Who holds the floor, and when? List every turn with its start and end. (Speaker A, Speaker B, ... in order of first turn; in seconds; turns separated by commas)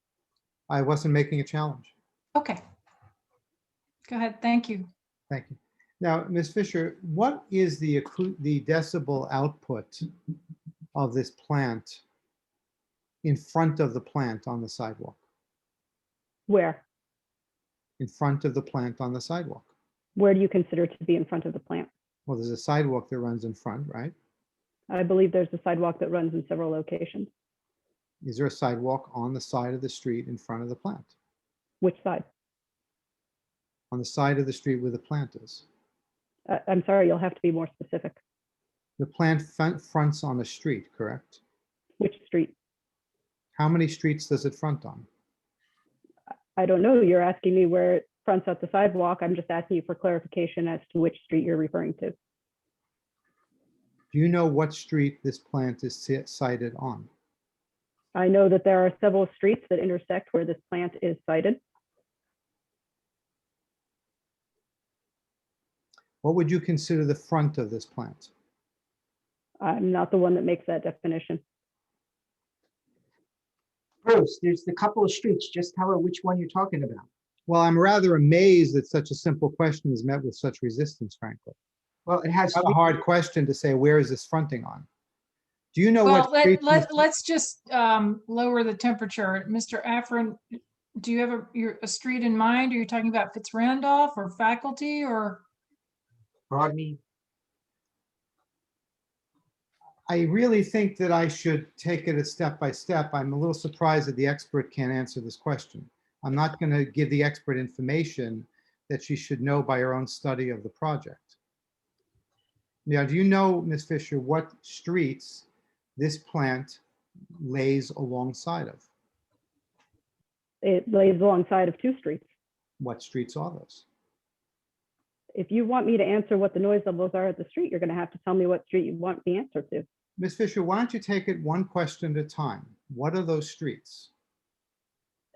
Speaker A: 0.7-1.9, Speaker B: 4.1-4.9, Speaker A: 5.3-10.1, Speaker A: 10.9-12.0, Speaker A: 13.2-15.2, Speaker C: 16.5-16.8, Speaker A: 18.0-19.7, Speaker C: 20.1-21.9, Speaker A: 22.3-24.1, Speaker C: 24.9-27.3, Speaker A: 28.2-31.1, Speaker C: 31.8-32.2, Speaker A: 33.9-35.6, Speaker C: 36.5-38.2, Speaker A: 39.0-41.4, Speaker C: 42.0-42.5, Speaker A: 43.5-45.1, Speaker C: 46.5-52.1, Speaker A: 54.1-57.1, Speaker C: 58.1-61.6, Speaker A: 66.2-68.3, Speaker C: 69.6-71.4, Speaker D: 74.0-77.0, Speaker A: 77.5-81.5, Speaker D: 82.1-82.8, Speaker A: 82.5-84.9, Speaker A: 85.7-87.0, Speaker B: 86.0-95.4, Speaker D: 96.5-97.0, Speaker A: 100.1-111.3, Speaker A: 112.8-116.8, Speaker A: 117.4-118.8, Speaker C: 120.6-122.2, Speaker A: 122.8-123.8, Speaker C: 125.3-129.8, Speaker A: 130.2-134.1